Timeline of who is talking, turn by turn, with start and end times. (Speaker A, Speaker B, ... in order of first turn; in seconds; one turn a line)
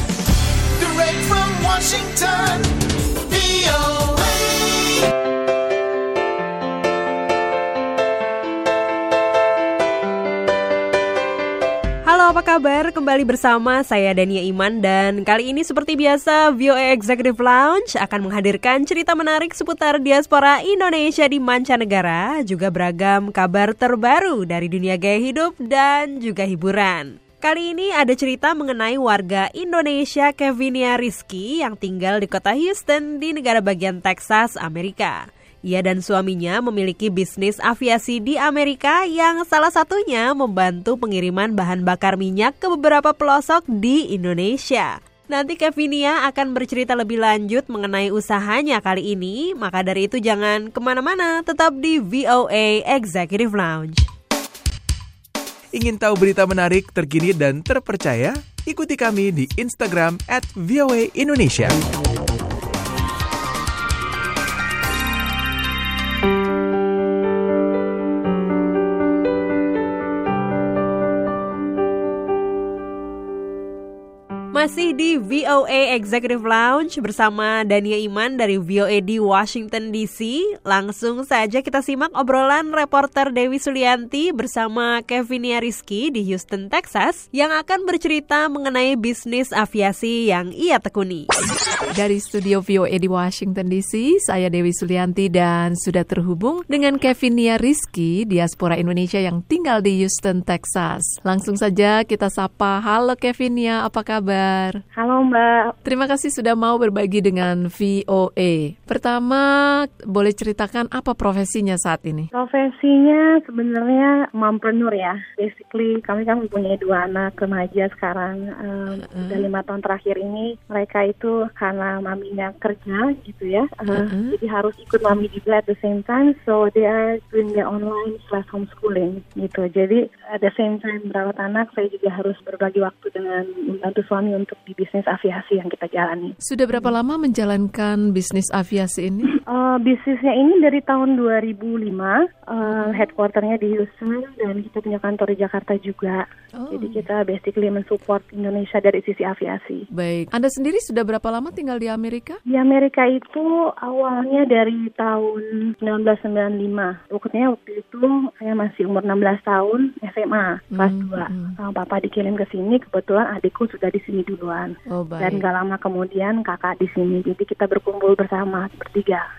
Speaker A: 0.8-2.7
Speaker A: 3.2-5.0
Speaker B: 12.1-54.1
Speaker C: 55.7-61.8
Speaker B: 74.5-91.3
Speaker D: 92.0-104.8
Speaker E: 104.9-105.7
Speaker D: 105.8-112.3
Speaker E: 112.3-136.9
Speaker D: 118.9-119.5
Speaker D: 123.9-124.4
Speaker D: 136.4-139.3
Speaker E: 139.4-149.8
Speaker D: 142.6-143.1
Speaker D: 146.6-147.1
Speaker D: 149.9-152.4
Speaker E: 152.5-169.2
Speaker D: 160.8-161.6
Speaker D: 164.9-165.4